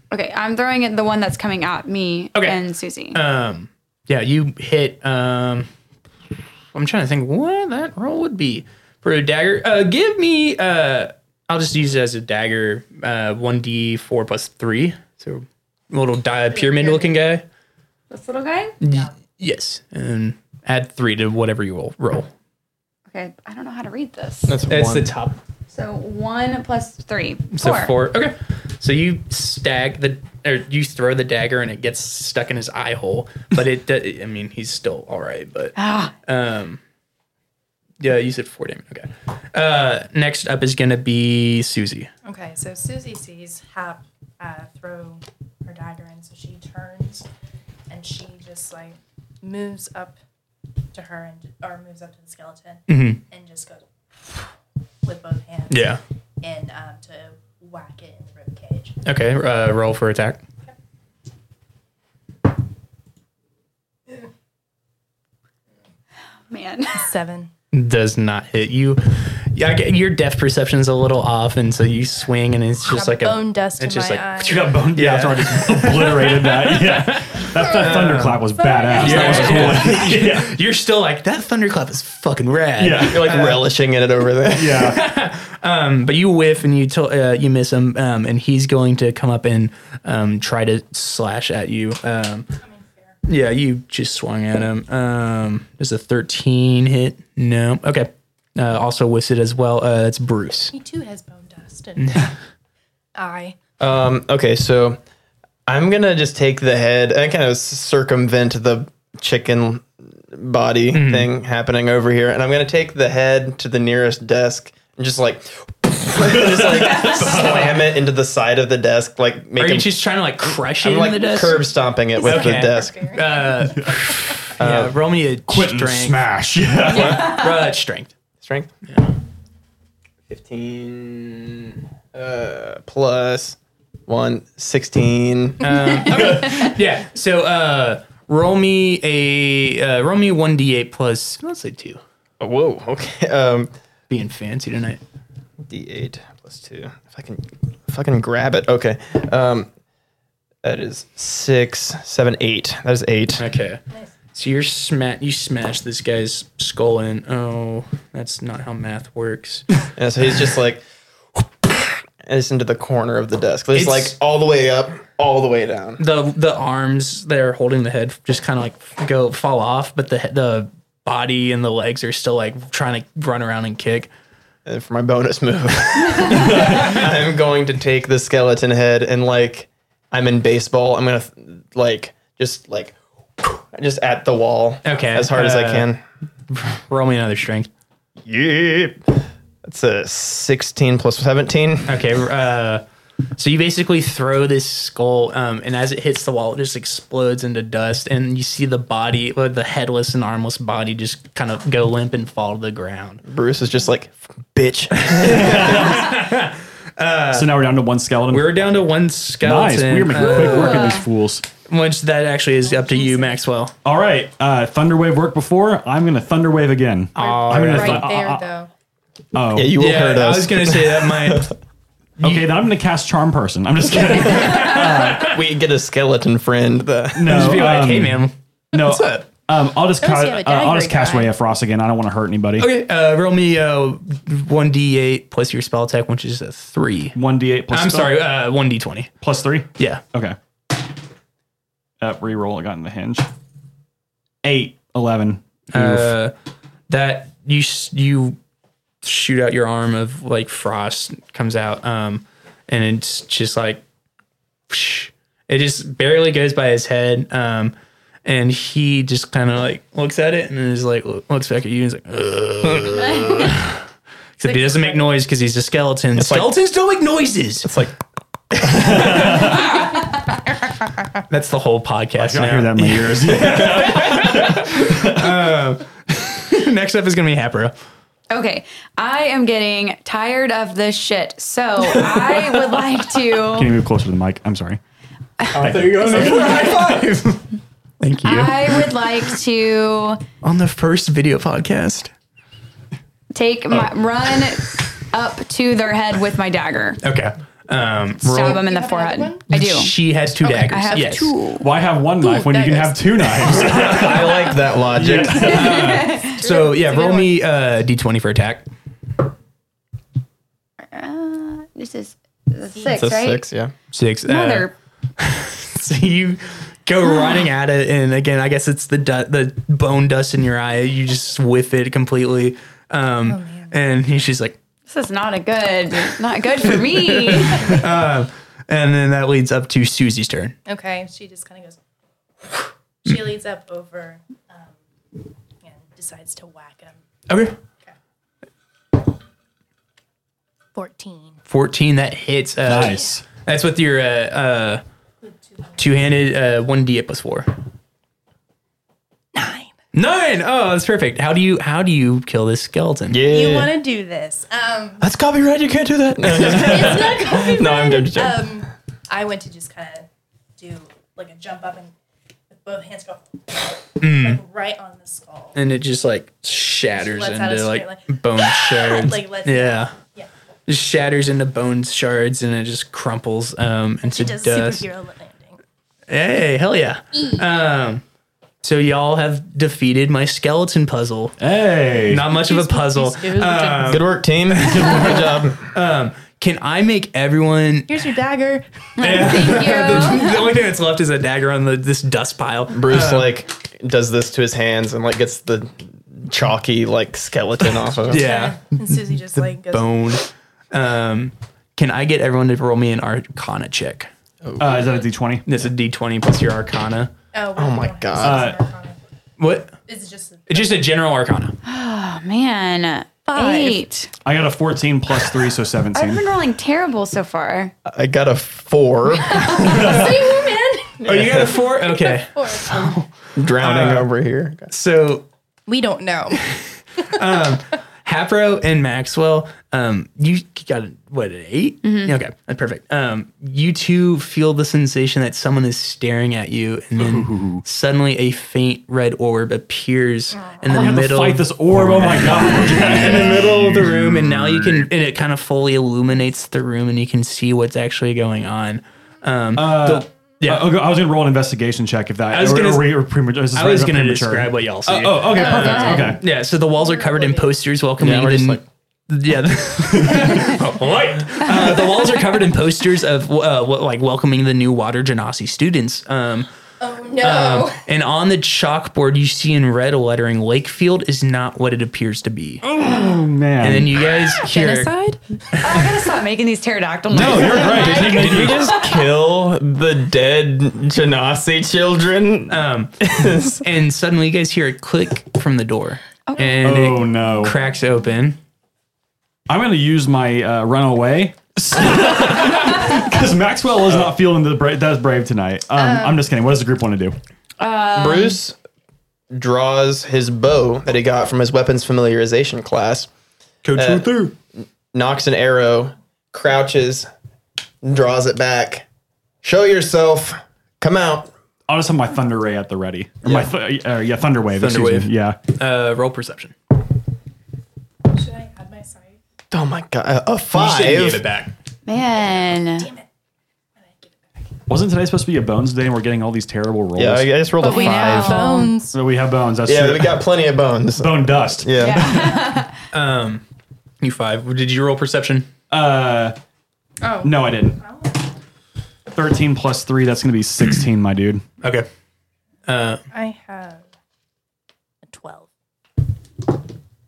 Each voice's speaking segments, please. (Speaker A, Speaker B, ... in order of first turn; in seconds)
Speaker A: 0.1-3.2, 18.1-18.8, 23.1-24.6, 25.7-27.9, 35.8-36.1, 66.5-67.1, 126.9-127.7, 210.1-211.1, 278.3-283.7, 286.0-286.8, 288.2-290.2, 293.3-297.0, 298.2-299.9, 300.4-301.7, 305.7-306.4, 310.8-313.4, 314.3-314.7, 324.9-327.8, 389.0-390.4, 411.6-414.1, 415.9-417.7, 431.8-432.1, 455.4-456.2, 475.6-479.0, 486.3-486.5, 497.6-498.4, 521.9-522.9, 527.6-528.8, 531.8-532.7
Speaker B: 3.1-5.7, 6.7-17.5, 18.8-22.3, 24.7-25.4, 27.5-36.8, 38.0-42.1, 52.9-53.2, 55.7-56.0, 59.0-60.4, 67.7-83.7, 84.7-92.5, 93.3-100.7, 102.0-102.3, 110.9-111.3, 117.2-117.7, 119.6-121.7, 122.2-126.2, 126.9-128.1, 128.9-129.1, 135.6-142.0, 144.1-145.0, 153.4-153.8, 154.3-159.7, 163.7-164.2, 166.0-174.1, 184.8-185.9, 186.5-187.7, 191.9-192.8, 193.4-203.2, 205.0-207.5, 208.3-211.0, 211.7-213.7, 219.8-221.5, 222.2-222.5, 224.0-225.4, 227.2-229.2, 232.6-237.2, 237.7-239.1, 239.8-240.0, 245.7-246.3, 246.9-248.4, 249.0-253.8, 254.7-257.7, 258.2-263.8, 264.4-267.7, 268.9-269.6, 271.3-277.7, 285.5-287.5, 288.0-288.9, 290.4-292.1, 297.0-298.6, 299.5-301.3, 305.1-308.7, 313.9-324.6, 326.7-330.6, 337.3-337.6, 341.5-344.8, 345.8-347.5, 349.9-353.2, 356.4-357.0, 364.0-364.4, 365.6-369.9, 370.7-374.9, 376.1-378.0, 378.6-381.4, 382.0-388.0, 389.0-393.3, 398.1-404.1, 405.5-407.1, 409.4-409.8, 410.5-411.6, 421.0-424.1, 424.7-425.3, 426.5-450.7, 452.3-466.5, 467.2-472.6, 473.6-474.9, 482.5-488.4, 503.6-504.4, 514.6-516.5, 520.5-521.5, 532.9-533.4, 534.0-535.5, 541.6-541.9, 542.7-543.0
Speaker C: 16.6-17.2, 42.2-47.3, 47.9-50.2, 50.9-54.4, 55.0-59.0, 66.9-67.5, 72.9-74.7, 78.6-79.7, 92.6-93.2, 100.7-102.3, 103.2-103.6, 122.1-124.1, 212.7-213.4, 217.2-218.7, 230.0-231.3, 264.4-265.1, 298.3-299.4, 300.4-301.3, 302.2-304.1, 306.2-307.4, 312.8-313.0, 323.3-323.8, 330.7-331.8, 333.0-334.7, 335.6-337.0, 340.8-341.4, 349.3-349.7, 353.2-355.0, 356.4-361.9, 362.5-365.6, 366.9-370.3, 374.0-375.6, 382.3-384.1, 387.9-390.0, 398.1-399.9, 407.3-409.0, 409.9-410.8, 413.3-413.8, 419.3-423.0, 425.7-426.4, 456.7-457.5, 466.8-467.8, 474.4-475.2, 495.8-496.2, 518.1-519.2, 522.8-523.0, 523.8-524.1, 527.6-529.0, 537.0-538.3, 543.1-543.8, 545.1-545.5
Speaker D: 24.5-25.1, 83.0-85.0, 103.8-105.0, 105.7-123.0, 124.6-124.9, 126.9-127.2, 128.4-128.7, 130.3-136.3, 142.4-143.7, 145.7-149.7, 150.6-153.4, 160.0-160.8, 161.6-166.0, 174.7-186.0, 188.2-192.0, 203.2-206.0, 217.2-218.1, 219.5-221.5, 225.2-227.6, 262.6-263.0, 266.2-266.5, 267.6-267.9, 268.5-269.4, 303.5-305.7, 312.9-313.7, 353.1-353.8, 355.0-358.5, 383.9-385.7, 392.7-398.2, 404.4-404.7, 407.6-408.5, 417.9-420.2, 421.0-421.6, 423.4-424.7, 458.0-458.6, 477.2-483.6, 497.9-498.6, 499.3-503.1, 503.8-507.1, 507.8-508.9, 509.4-511.3, 519.5-521.2, 527.0-528.4, 529.7-532.2
Speaker E: 74.4-80.5, 82.8-83.4, 84.5-85.0, 116.2-117.7, 125.5-127.4, 205.3-206.1, 207.3-208.7, 209.4-211.5, 213.8-218.4, 219.3-219.8, 222.2-225.4, 227.1-232.7, 237.2-238.2, 239.2-240.4, 242.0-243.3, 244.4-246.2, 268.8-269.7, 272.2-275.4, 283.5-284.8, 285.6-286.4, 301.6-306.1, 342.7-343.2, 381.4-382.3, 404.6-405.5, 408.2-408.6, 414.2-416.3, 419.7-420.1, 437.0-437.6, 440.7-444.9, 449.6-456.2, 459.8-462.2, 472.6-474.1, 477.1-478.8, 486.6-487.6, 489.5-497.2, 511.7-515.4, 524.7-527.3, 528.9-530.2, 531.0-532.6, 535.7-536.4, 537.2-537.8, 539.1-541.4